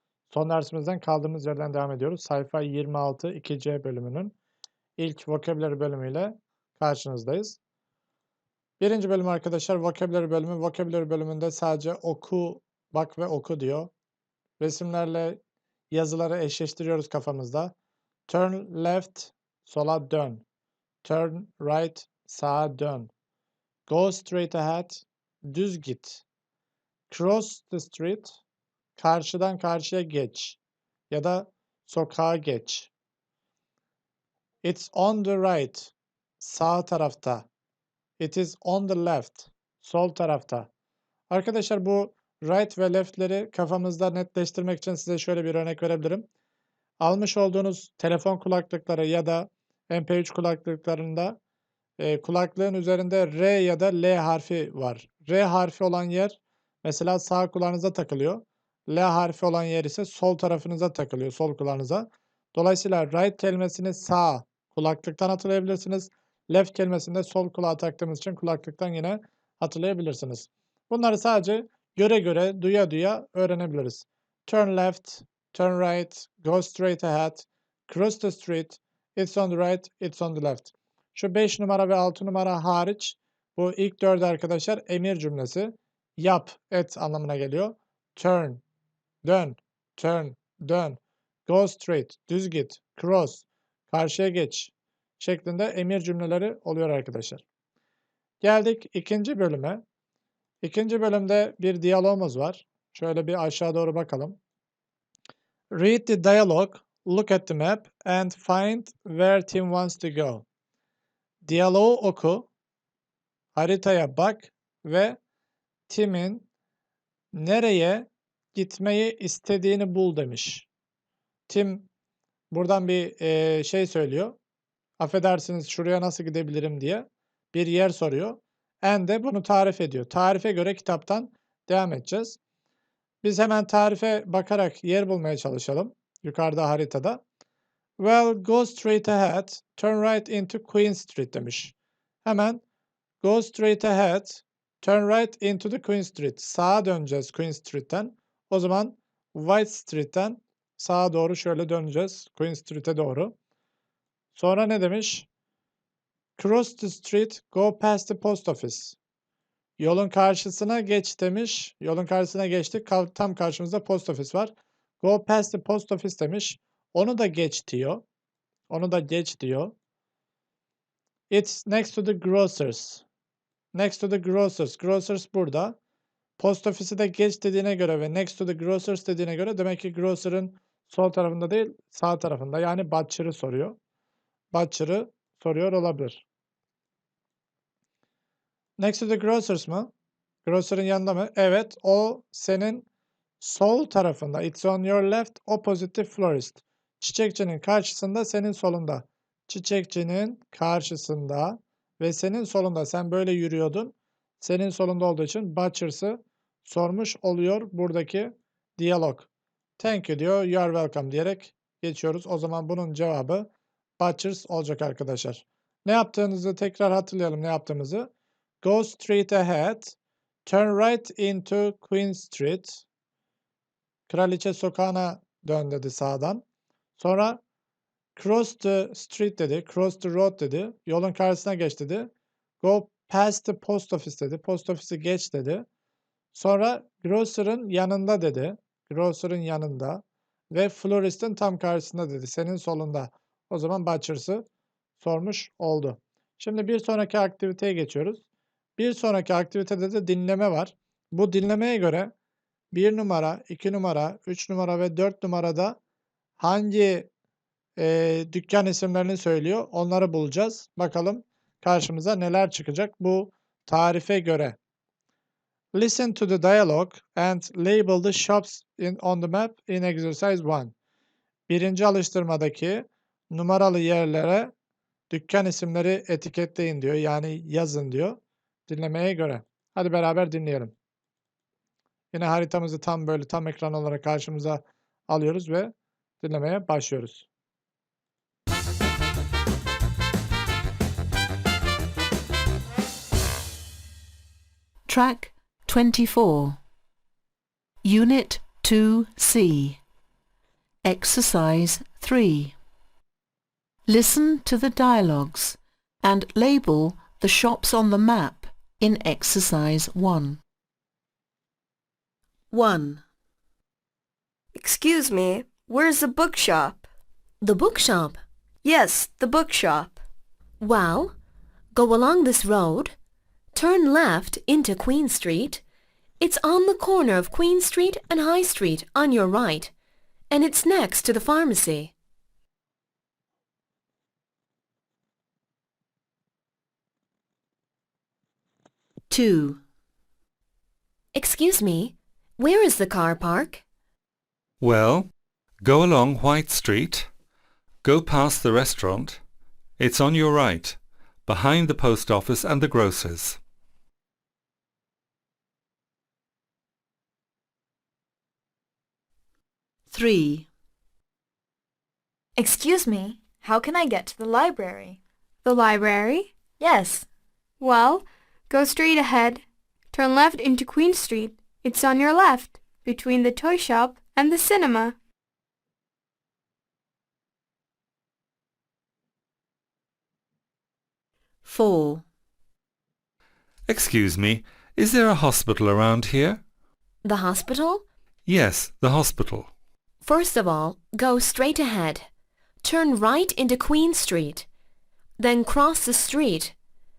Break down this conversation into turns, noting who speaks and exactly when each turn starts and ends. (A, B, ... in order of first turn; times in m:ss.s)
0:00.3-0:04.4 A
0:05.0-0:07.6 A
0:08.8-0:13.9 A
0:14.6-0:15.4 A
0:15.9-0:17.7 A
0:18.3-0:20.4 A
0:21.0-0:23.1 A
0:23.9-0:26.2 A
0:27.1-0:28.4 A
0:29.0-0:30.6 A
0:31.1-0:32.9 A
0:34.6-0:37.4 A
0:38.2-0:40.7 A
0:41.3-0:46.3 A
0:47.0-0:51.4 A
0:52.0-1:28.6 A
1:29.2-1:37.4 A
1:38.4-1:39.8 A
1:40.6-1:44.4 A
1:45.7-1:50.4 A
1:51.4-1:52.5 A
1:53.6-1:55.2 A
1:55.9-1:56.4 A
1:57.3-2:00.7 A
2:01.5-2:01.9 A
2:02.5-2:04.4 A
2:05.0-2:12.4 A
2:13.2-2:17.2 A
2:18.0-2:21.7 A
2:22.2-2:22.6 A
2:23.2-2:33.3 A
2:34.3-2:35.3 A
2:36.4-2:39.0 A
2:39.8-2:48.0 A
2:48.7-2:49.7 A
2:51.3-2:53.0 A
2:53.7-2:55.8 A
2:56.4-3:03.8 A
3:04.5-3:06.2 A
3:08.8-3:09.9 A
3:10.4-3:12.8 A
3:13.4-3:29.3 A
3:29.8-3:38.1 A
3:38.6-3:42.8 A
3:44.1-3:46.4 A
3:47.0-3:47.4 A
3:48.2-3:55.6 A
3:56.3-4:04.4 A
4:05.0-4:08.2 A
4:08.8-4:12.1 A
4:12.7-4:15.8 A
4:16.4-4:17.1 A
4:17.8-4:24.6 A
4:25.8-4:30.7 A
4:31.5-4:34.5 A
4:35.1-4:40.7 A
4:42.1-4:47.2 A
4:54.9-4:56.6 B
4:57.8-4:59.8 B
5:00.8-5:02.6 B
5:03.9-5:10.4 B
5:12.5-5:13.0 B
5:14.5-5:16.9 C
5:17.4-5:18.2 D
5:18.6-5:20.0 C
5:20.6-5:21.2 D
5:21.7-5:23.0 D
5:23.5-5:25.6 D
5:26.2-5:29.7 D
5:30.3-5:31.9 D
5:39.1-5:39.6 B
5:41.1-5:43.6 D
5:44.6-5:45.1 E
5:45.6-5:47.1 E
5:47.8-5:49.2 E
5:49.8-5:53.4 E
5:59.9-6:00.5 B
6:02.4-6:05.0 F
6:05.4-6:06.3 G
6:06.6-6:07.0 F
6:07.6-6:15.0 G
6:21.4-6:22.0 B
6:23.7-6:26.4 E
6:27.0-6:27.8 D
6:28.2-6:29.5 E
6:30.0-6:32.1 D
6:32.6-6:34.5 D
6:35.2-6:36.6 D